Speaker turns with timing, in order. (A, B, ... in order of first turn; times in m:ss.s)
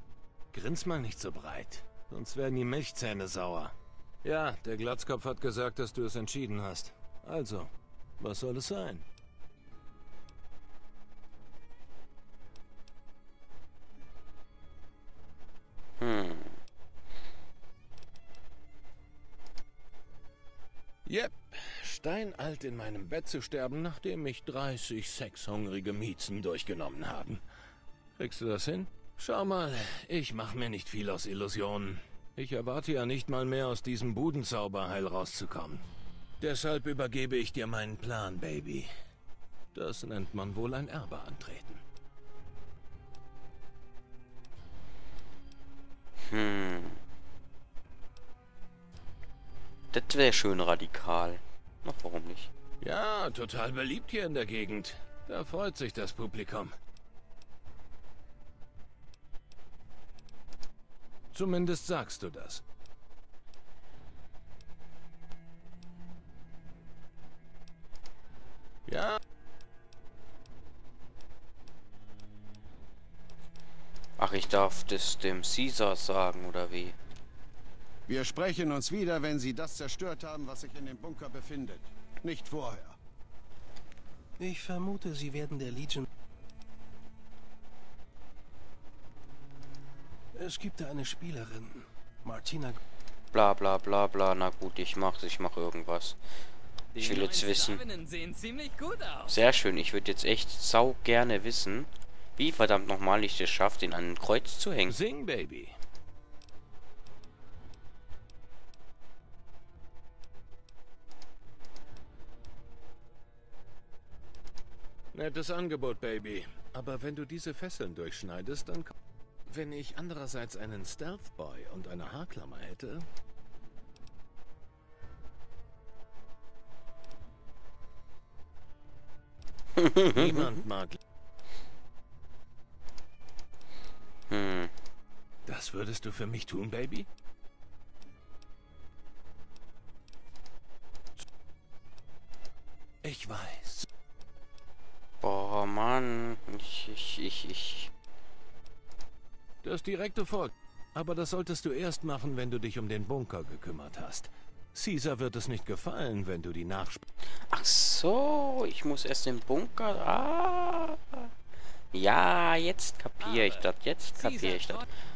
0:00.5-0:09.0 A
0:16.0-0:16.6 B
0:21.1-0:27.4 A
0:28.2-0:35.8 A
0:36.4-0:38.9 A
0:39.7-0:41.8 A
0:46.2-0:47.0 B
0:49.9-0:52.5 B
0:52.8-0:56.8 A
1:01.3-1:02.6 A
1:08.9-1:09.2 A
1:14.2-1:17.0 B
1:18.1-1:23.0 C
1:24.4-1:26.1 D
1:30.4-1:32.8 D
1:33.3-1:36.2 B
1:37.0-1:39.4 E
1:37.0-1:37.8 B
1:39.3-1:45.0 B
1:44.9-1:45.8 A
1:55.1-1:58.9 A
1:59.5-2:03.1 A
2:09.8-2:10.6 B
2:10.2-2:11.0 A
2:14.3-2:14.7 B
2:15.5-2:17.1 A
2:23.0-2:23.9 A
2:25.2-2:27.9 B
2:29.6-2:37.0 A
2:37.5-2:41.3 B
2:41.9-2:44.8 B
2:43.2-2:43.6 E
2:44.2-2:44.9 E